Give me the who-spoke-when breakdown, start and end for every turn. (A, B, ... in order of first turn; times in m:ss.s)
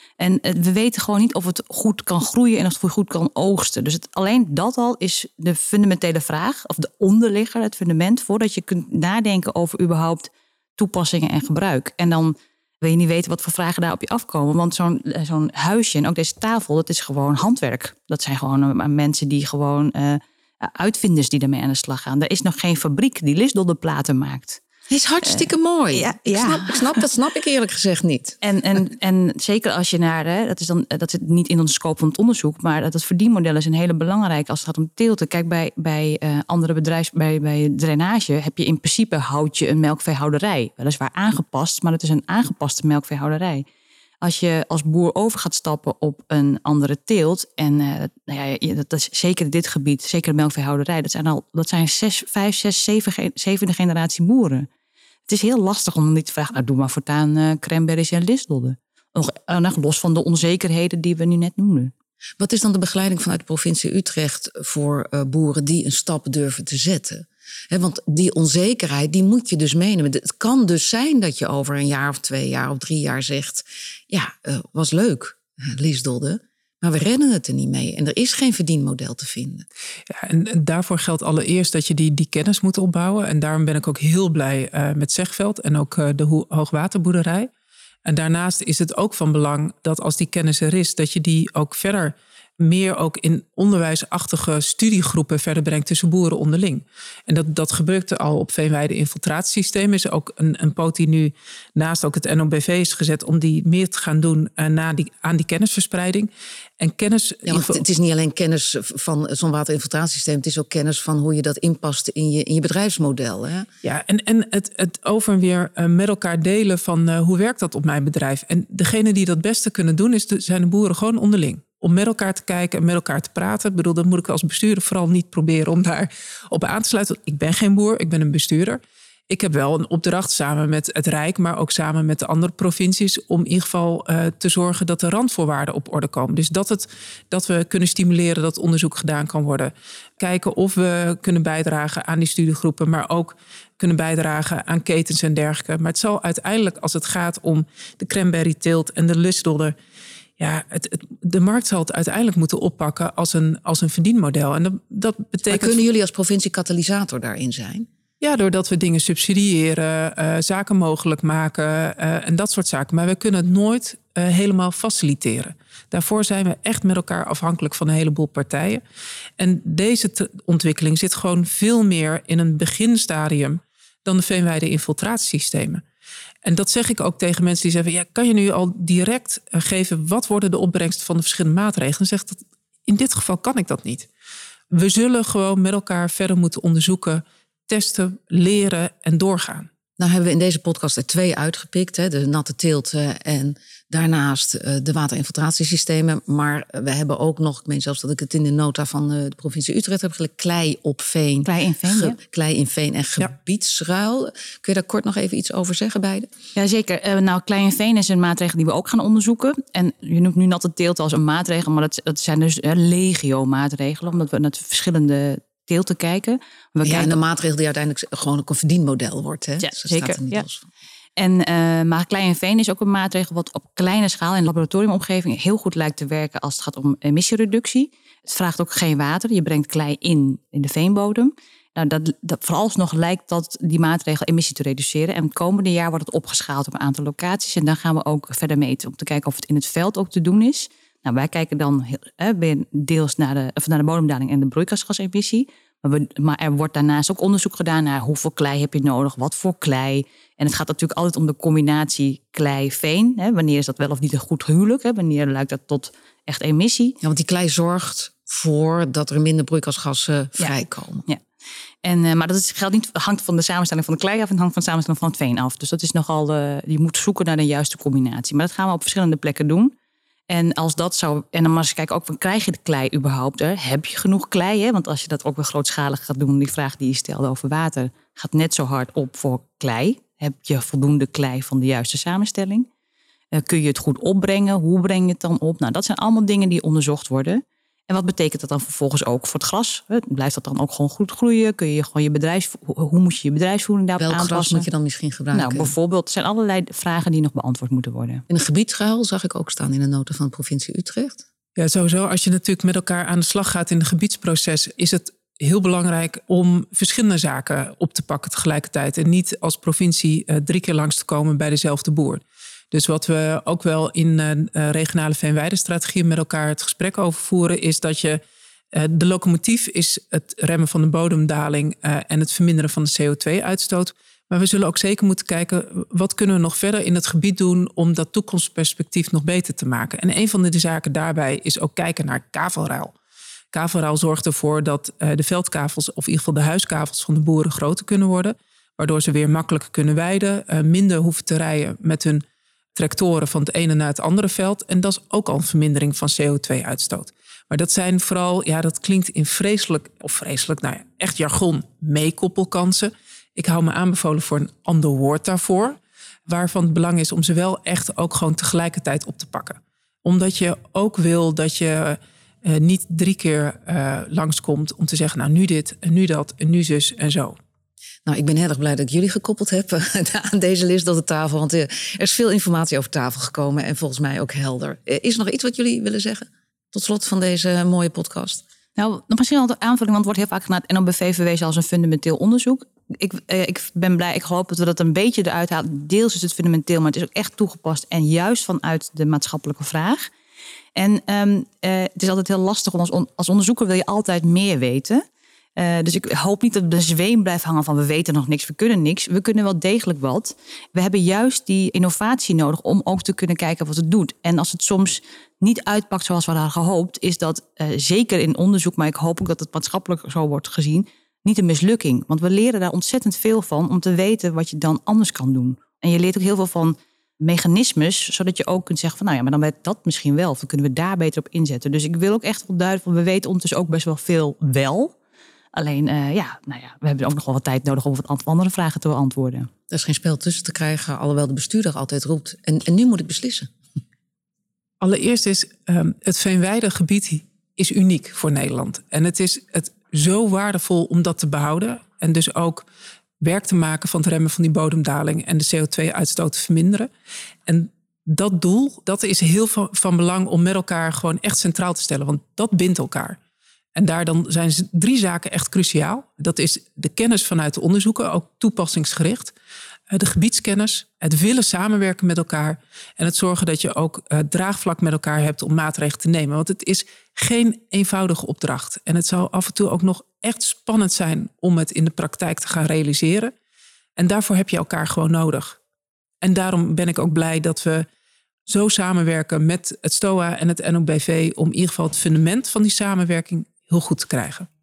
0:00.2-0:24.6 A
0:24.9-0:28.4 B
0:25.9-0:27.0 A
0:28.4-0:43.6 A
0:44.2-0:54.7 A
0:55.3-1:01.9 A
1:02.4-1:19.6 B
1:20.1-1:27.5 C
1:28.0-1:47.8 C
1:47.4-1:53.7 B
1:53.8-2:29.7 C
2:30.4-2:35.8 C
2:35.5-2:37.9 B
2:38.2-2:48.8 C
2:49.4-2:55.8 C
2:56.4-3:04.1 C
3:04.7-3:09.7 C
3:10.0-3:26.3 B
3:21.4-3:22.2 A
3:26.6-3:37.2 A
3:36.8-3:40.6 B
3:39.6-3:40.4 A
3:41.2-4:17.0 A
4:17.0-4:21.0 B
4:20.4-4:21.2 A
4:21.8-4:29.7 A
4:30.3-4:42.7 A
4:43.3-4:54.7 A
4:54.0-4:55.7 B
4:55.3-4:58.2 A
4:58.3-5:01.2 B
5:01.6-5:18.2 C
5:18.7-5:32.9 C
5:33.5-5:42.2 C
5:42.7-6:07.4 C
6:08.0-6:18.4 B
6:18.8-6:30.1 A
6:30.7-6:35.0 A
6:35.6-7:04.9 A
7:05.5-7:09.5 A
7:09.7-7:13.5 B
7:14.8-7:22.6 C
7:23.2-7:26.9 C
7:27.5-7:33.2 C
7:33.8-7:39.3 C
7:39.9-7:53.3 C
7:54.0-7:55.6 C
7:56.2-7:57.9 C
7:58.5-8:04.5 C